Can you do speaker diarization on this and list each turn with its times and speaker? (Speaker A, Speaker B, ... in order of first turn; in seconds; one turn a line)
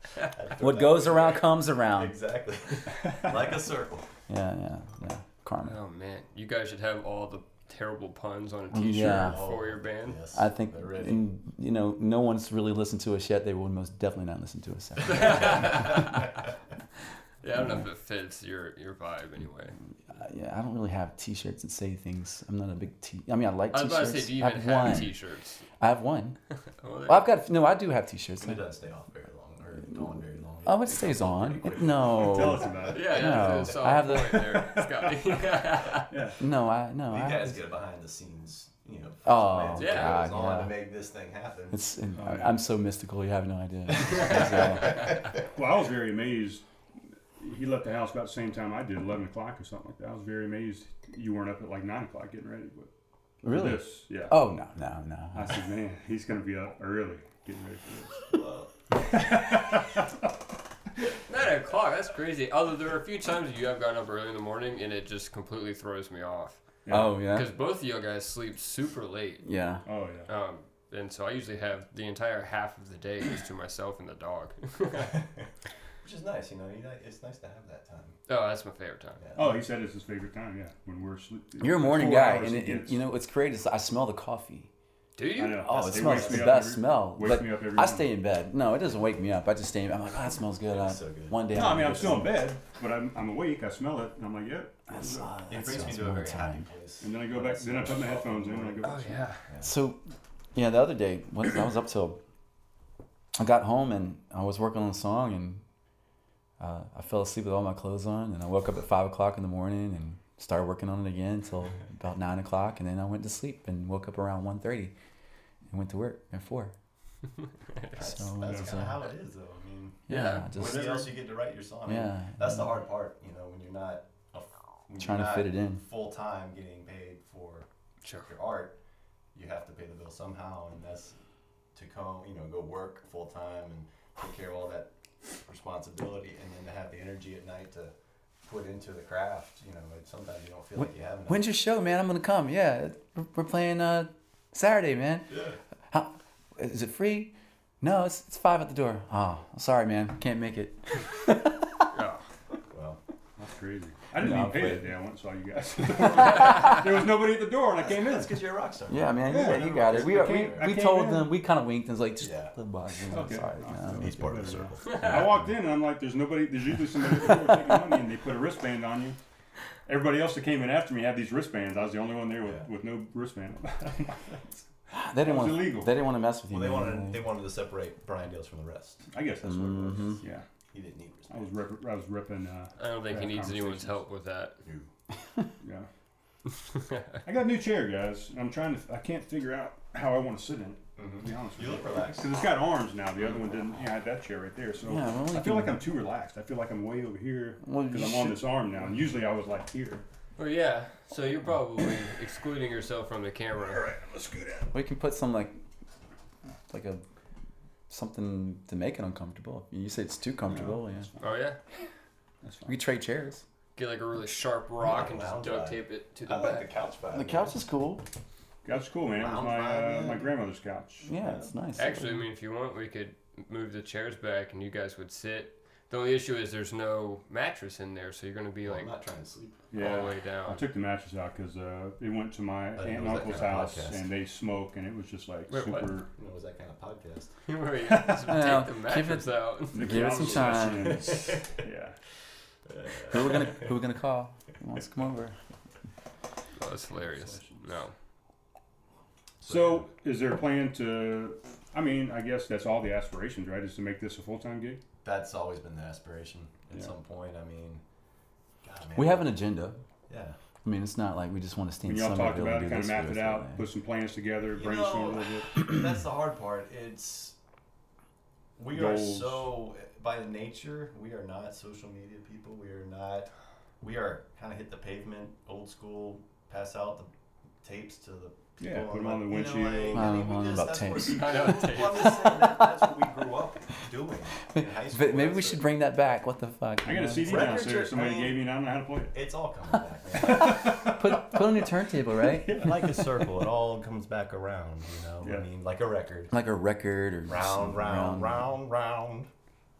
Speaker A: 0.2-4.1
Speaker B: 0.6-2.1
Speaker B: 4.3-5.8
Speaker C: 5.6-10.2
Speaker B: 8.7-9.4
Speaker A: 9.0-11.2
Speaker B: 10.3-16.1
Speaker C: 15.0-16.3
Speaker C: 17.4-19.7
Speaker B: 20.1-25.1
Speaker C: 23.7-25.6
Speaker B: 25.8-26.4
Speaker C: 26.8-27.3
Speaker B: 27.1-28.6
Speaker A: 28.4-32.9
Speaker B: 30.6-34.6
Speaker D: 31.9-35.4
Speaker C: 32.9-36.1
Speaker D: 36.1-36.4
Speaker B: 36.4-37.6
Speaker A: 37.1-41.8
Speaker B: 39.2-40.7
Speaker C: 39.8-40.3
Speaker B: 41.7-45.2
Speaker D: 42.1-42.6
Speaker A: 44.0-45.2
Speaker C: 44.1-45.0
Speaker D: 45.4-46.6
Speaker D: 47.4-52.9
Speaker B: 53.4-55.6
Speaker D: 53.4-54.4
Speaker D: 55.3-58.3
Speaker A: 58.3-58.7
Speaker D: 58.9-60.0
Speaker C: 61.3-66.6
Speaker D: 66.8-67.1
Speaker B: 66.9-67.5
Speaker C: 67.3-69.4
Speaker B: 69.4-69.8
Speaker D: 69.8-70.3
Speaker C: 70.3-75.1
Speaker A: 75.1-75.5
Speaker A: 76.0-78.2
Speaker C: 78.3-79.2
Speaker A: 79.2-79.6
Speaker D: 79.3-83.0
Speaker B: 81.6-84.7
Speaker C: 85.2-85.8
Speaker D: 85.3-88.1
Speaker B: 85.6-92.5
Speaker A: 85.8-86.6
Speaker A: 90.7-91.9
Speaker D: 91.5-95.8
Speaker B: 94.9-96.7
Speaker A: 95.5-99.7
Speaker D: 97.0-99.3
Speaker C: 98.8-99.4
Speaker B: 99.6-100.0
Speaker B: 100.5-102.2
Speaker B: 103.3-105.6
Speaker B: 106.6-114.9
Speaker B: 115.7-116.7
Speaker C: 117.6-118.0
Speaker A: 117.9-127.7
Speaker B: 118.0-119.0
Speaker D: 118.4-118.7
Speaker B: 120.1-121.1
Speaker C: 120.1-121.0
Speaker B: 121.8-122.6
Speaker B: 125.0-125.8
Speaker C: 128.0-128.3
Speaker A: 128.2-128.8
Speaker A: 129.3-131.2
Speaker A: 131.7-141.4
Speaker B: 140.8-145.3
Speaker A: 145.3-145.6
Speaker B: 145.9-151.9
Speaker C: 151.9-152.2
Speaker A: 152.7-153.0
Speaker D: 153.4-158.4
Speaker B: 154.2-154.9
Speaker B: 156.0-156.5
Speaker A: 157.7-160.7
Speaker B: 158.9-164.2
Speaker D: 159.2-161.3
Speaker A: 162.2-162.5
Speaker D: 163.1-169.2
Speaker A: 163.9-165.5
Speaker D: 169.8-174.6
Speaker B: 174.9-177.3
Speaker D: 175.2-175.9
Speaker A: 176.5-179.1
Speaker D: 179.1-180.4
Speaker B: 179.4-180.2
Speaker A: 180.7-181.5
Speaker D: 181.3-184.0
Speaker C: 182.8-184.6
Speaker A: 184.6-184.9
Speaker D: 185.6-185.9
Speaker D: 187.2-200.0
Speaker A: 191.0-192.3
Speaker B: 194.8-195.8
Speaker B: 197.6-198.4
Speaker C: 200.4-203.9
Speaker D: 203.7-204.7
Speaker B: 204.7-205.6
Speaker B: 206.7-207.0
Speaker B: 207.9-211.1
Speaker D: 210.5-211.2
Speaker C: 211.2-211.6
Speaker D: 212.4-212.8
Speaker B: 212.7-213.4
Speaker C: 213.7-216.7
Speaker A: 214.8-217.5
Speaker B: 217.1-218.0
Speaker D: 218.6-221.1
Speaker A: 219.2-220.3
Speaker B: 221.0-222.2
Speaker A: 221.1-221.5
Speaker C: 221.8-228.9
Speaker A: 228.6-229.6
Speaker D: 229.7-236.1
Speaker C: 229.7-230.6
Speaker A: 232.8-234.0
Speaker C: 235.5-236.0
Speaker A: 236.1-237.3
Speaker C: 237.4-240.4
Speaker D: 237.8-238.3
Speaker B: 238.3-241.1
Speaker D: 239.7-242.0
Speaker A: 240.6-241.6
Speaker A: 242.7-243.7
Speaker B: 243.1-245.4
Speaker C: 246.6-247.9
Speaker D: 246.9-247.7
Speaker A: 249.4-249.9
Speaker D: 249.4-254.8
Speaker A: 255.0-257.8
Speaker A: 258.6-259.3
Speaker B: 258.9-259.8
Speaker A: 260.1-260.4
Speaker B: 260.6-263.6
Speaker D: 261.8-265.6
Speaker A: 264.5-267.4
Speaker A: 268.6-273.3
Speaker D: 268.7-269.5
Speaker A: 273.8-277.1
Speaker A: 277.6-285.6
Speaker D: 278.6-280.2
Speaker B: 279.9-282.8
Speaker C: 281.0-282.3
Speaker B: 284.5-287.6
Speaker D: 286.8-289.1
Speaker A: 287.2-288.4
Speaker A: 289.1-290.8
Speaker D: 290.2-291.5
Speaker B: 290.3-292.7
Speaker D: 292.2-293.4
Speaker A: 292.6-296.3
Speaker B: 296.3-298.4
Speaker A: 297.3-299.3